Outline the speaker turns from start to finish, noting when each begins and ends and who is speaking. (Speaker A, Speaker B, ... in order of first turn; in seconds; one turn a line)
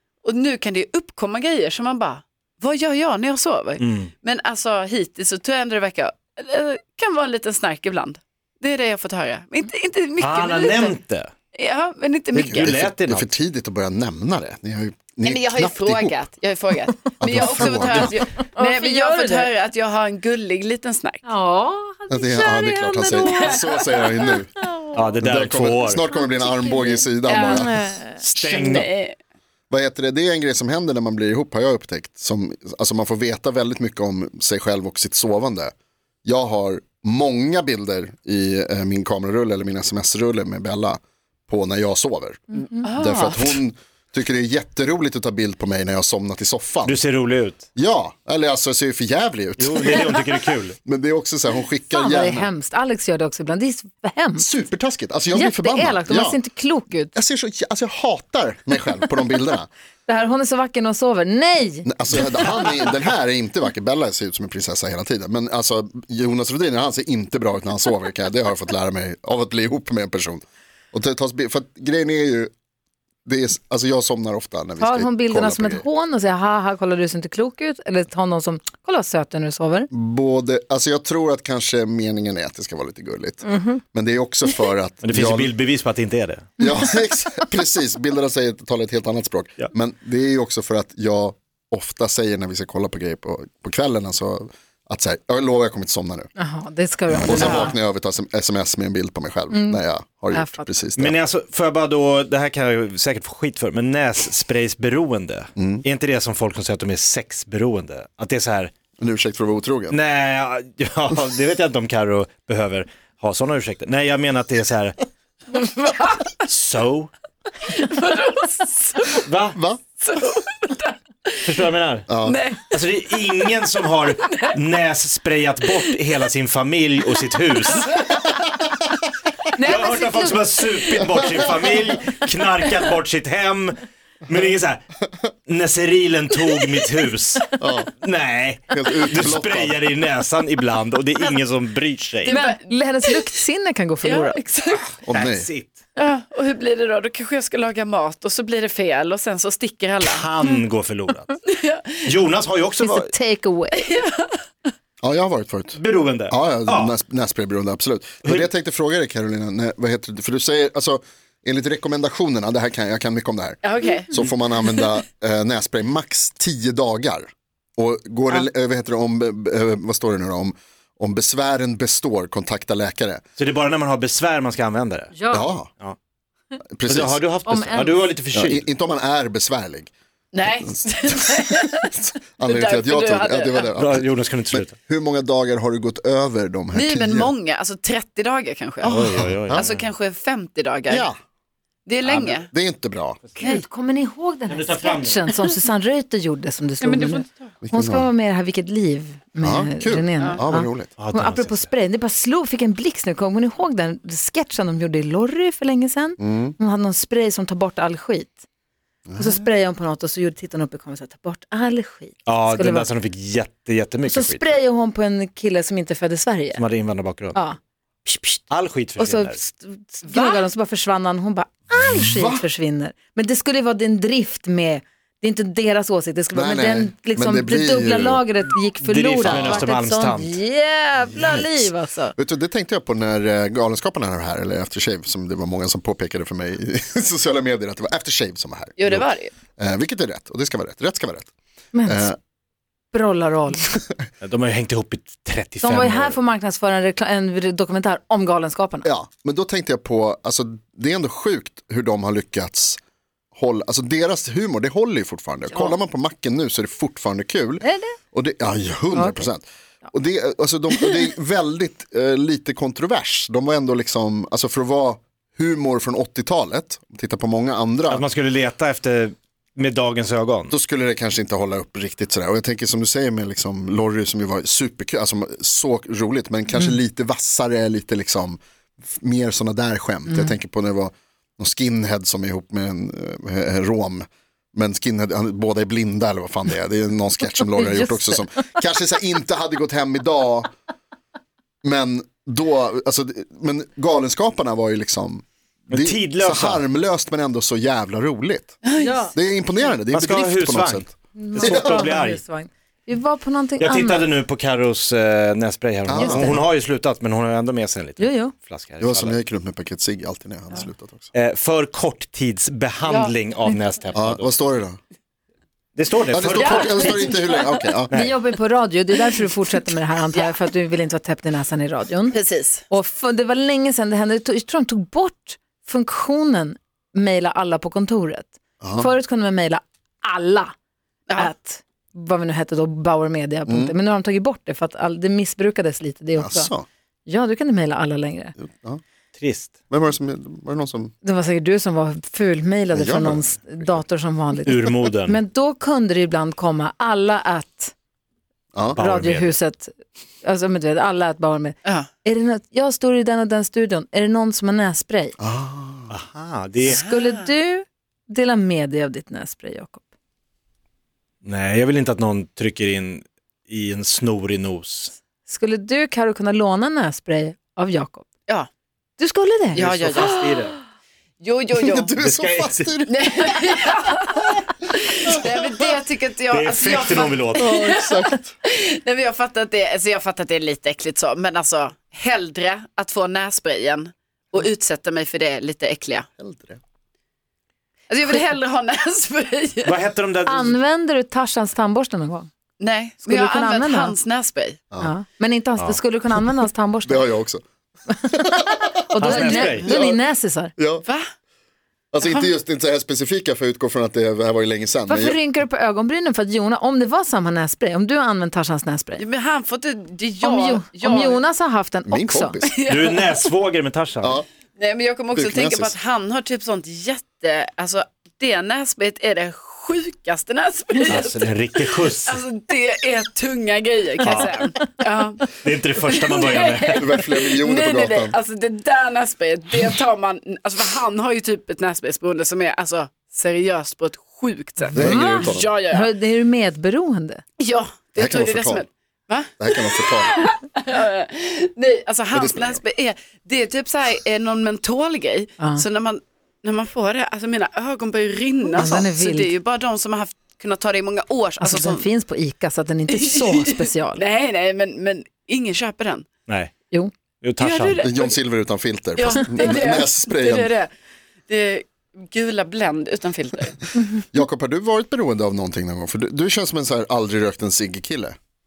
Speaker A: 0.2-11.0
Speaker B: 3.8-4.1
Speaker B: 10.2-11.3
Speaker A: 11.5-12.7
Speaker C: 12.3-16.1
Speaker B: 12.4-13.3
Speaker A: 15.2-21.2
Speaker C: 17.2-18.2
Speaker D: 17.7-19.5
Speaker D: 21.2-25.1
Speaker C: 22.1-24.5
Speaker A: 23.2-23.7
Speaker B: 24.9-26.1
Speaker C: 25.2-27.9
Speaker D: 26.1-28.2
Speaker A: 27.3-27.7
Speaker B: 28.2-28.9
Speaker A: 28.4-29.2
Speaker C: 29.7-35.7
Speaker C: 36.2-47.0
Speaker D: 42.5-42.9
Speaker A: 42.8-43.6
Speaker B: 46.8-47.6
Speaker C: 47.8-50.2
Speaker B: 49.6-50.8
Speaker C: 50.9-52.5
Speaker D: 51.9-54.5
Speaker C: 54.4-56.4
Speaker D: 55.3-57.1
Speaker C: 57.1-59.7
Speaker D: 60.1-61.9
Speaker C: 61.9-72.5
Speaker C: 73.2-75.8
Speaker D: 74.8-79.9
Speaker C: 79.9-85.5
Speaker D: 83.5-83.8
Speaker B: 85.0-86.5
Speaker C: 86.6-96.3
Speaker D: 96.4-97.8
Speaker C: 97.1-101.2
Speaker A: 97.3-97.7
Speaker D: 99.5-99.8
Speaker D: 100.3-100.7
Speaker B: 101.0-108.7
Speaker C: 105.6-105.8
Speaker C: 109.0-110.0
Speaker B: 109.9-115.1
Speaker A: 115.6-116.3
Speaker B: 116.3-117.1
Speaker A: 117.6-119.3
Speaker B: 119.2-119.6
Speaker C: 119.5-119.8
Speaker A: 120.0-121.4
Speaker B: 121.4-122.1
Speaker C: 122.1-122.4
Speaker A: 122.2-122.8
Speaker B: 122.7-128.0
Speaker A: 124.2-124.5
Speaker A: 127.8-128.2
Speaker D: 129.5-130.6
Speaker B: 129.6-134.9
Speaker B: 135.4-142.3
Speaker C: 137.6-137.9
Speaker C: 138.7-139.8
Speaker A: 142.2-143.3
Speaker D: 142.3-144.4
Speaker A: 144.0-144.9
Speaker C: 145.0-145.5
Speaker B: 145.1-145.8
Speaker A: 146.0-150.2
Speaker B: 150.0-151.4
Speaker A: 151.5-152.2
Speaker B: 152.1-153.1
Speaker D: 152.8-153.8
Speaker A: 153.7-154.5
Speaker C: 155.0-173.2
Speaker B: 155.8-156.9
Speaker B: 158.2-158.5
Speaker A: 163.6-164.2
Speaker B: 173.4-175.1
Speaker D: 175.1-175.5
Speaker C: 175.3-175.7
Speaker C: 176.8-177.2
Speaker B: 176.9-178.7
Speaker D: 177.4-178.1
Speaker C: 178.3-179.9
Speaker A: 180.3-183.7
Speaker C: 180.4-187.3
Speaker B: 183.8-184.7
Speaker A: 186.7-188.9
Speaker C: 188.8-189.7
Speaker B: 188.9-189.8
Speaker A: 189.5-191.1
Speaker C: 190.9-191.2
Speaker A: 191.9-192.5
Speaker B: 192.0-192.4
Speaker C: 192.5-193.2
Speaker D: 193.4-208.4
Speaker B: 194.5-195.2
Speaker A: 196.8-197.5
Speaker C: 197.6-198.1
Speaker C: 199.4-200.9
Speaker B: 201.0-201.7
Speaker C: 206.2-206.6
Speaker C: 209.1-209.5
Speaker D: 209.2-212.9
Speaker B: 212.2-214.6
Speaker D: 214.1-216.6
Speaker B: 216.6-217.4
Speaker D: 217.3-232.2
Speaker B: 218.5-219.4
Speaker A: 220.1-220.4
Speaker C: 221.9-222.4
Speaker C: 226.3-228.2
Speaker B: 228.8-230.4
Speaker C: 229.3-229.7
Speaker C: 231.1-241.3
Speaker A: 238.8-239.3
Speaker D: 241.7-242.1
Speaker C: 241.8-242.2
Speaker D: 242.9-243.8
Speaker B: 244.2-246.2
Speaker D: 245.6-248.9
Speaker C: 248.8-252.8
Speaker C: 253.3-268.1
Speaker D: 255.5-255.8
Speaker D: 257.6-258.0
Speaker D: 258.9-259.3
Speaker B: 267.9-270.5
Speaker C: 270.5-290.5
Speaker D: 287.6-288.3
Speaker C: 291.6-298.6
Speaker B: 295.7-296.6
Speaker A: 298.6-298.9
Speaker D: 298.8-299.2
Speaker C: 299.1-301.9
Speaker B: 299.9-302.2
Speaker D: 301.2-304.1
Speaker B: 303.6-309.2
Speaker C: 305.9-306.4
Speaker D: 305.9-306.4
Speaker D: 308.0-308.3
Speaker C: 308.8-311.1
Speaker B: 311.1-314.3
Speaker A: 312.9-313.1
Speaker C: 313.9-314.8
Speaker B: 315.8-317.1
Speaker C: 316.1-318.0
Speaker A: 316.3-317.6
Speaker B: 317.9-318.1
Speaker D: 317.9-322.2
Speaker A: 320.1-320.4
Speaker A: 322.1-322.6
Speaker D: 322.7-330.5
Speaker C: 328.6-328.9
Speaker D: 331.2-336.5
Speaker C: 333.5-333.7
Speaker C: 336.2-336.7
Speaker D: 337.1-338.4
Speaker C: 338.4-338.8
Speaker B: 339.2-339.5
Speaker C: 339.7-340.9
Speaker D: 341.0-347.7
Speaker C: 342.7-343.8
Speaker B: 344.5-345.2
Speaker C: 348.6-348.8
Speaker B: 348.8-349.4
Speaker D: 348.8-355.2
Speaker C: 355.2-355.9
Speaker B: 355.9-356.9
Speaker D: 356.6-359.8
Speaker A: 356.7-357.3
Speaker B: 361.2-364.9
Speaker D: 365.3-368.1
Speaker D: 369.0-369.7
Speaker B: 369.5-370.6
Speaker A: 369.6-370.5
Speaker A: 371.2-371.9
Speaker C: 371.6-373.0
Speaker B: 372.0-372.7
Speaker A: 372.9-386.1
Speaker B: 376.3-377.5
Speaker C: 377.4-378.3
Speaker C: 386.2-386.6
Speaker A: 387.9-389.8
Speaker B: 389.6-390.6
Speaker D: 390.3-392.3
Speaker A: 392.6-394.6
Speaker D: 393.0-394.0
Speaker D: 394.8-397.1
Speaker C: 396.9-397.4
Speaker C: 398.0-400.0
Speaker D: 398.9-400.5
Speaker B: 399.0-399.7
Speaker C: 400.6-400.9
Speaker C: 401.9-405.2
Speaker A: 402.0-402.3
Speaker D: 404.9-409.0
Speaker A: 409.0-411.2
Speaker D: 410.2-412.4
Speaker C: 411.9-412.6
Speaker A: 412.4-413.3
Speaker B: 412.7-414.2
Speaker A: 414.6-435.9
Speaker C: 415.1-415.8
Speaker B: 420.9-422.2
Speaker B: 424.0-424.5
Speaker B: 425.4-426.9
Speaker C: 426.8-428.1
Speaker C: 434.7-435.5
Speaker D: 434.7-437.2
Speaker A: 437.4-451.9
Speaker C: 438.0-438.7
Speaker C: 439.4-440.3
Speaker C: 442.1-442.6
Speaker D: 445.4-445.6
Speaker D: 448.6-449.3
Speaker D: 451.4-454.0
Speaker A: 452.9-456.1
Speaker B: 457.2-457.8
Speaker A: 457.4-458.2
Speaker C: 457.8-460.5
Speaker A: 459.0-460.7
Speaker A: 461.3-463.6
Speaker D: 463.8-464.0
Speaker C: 464.1-468.1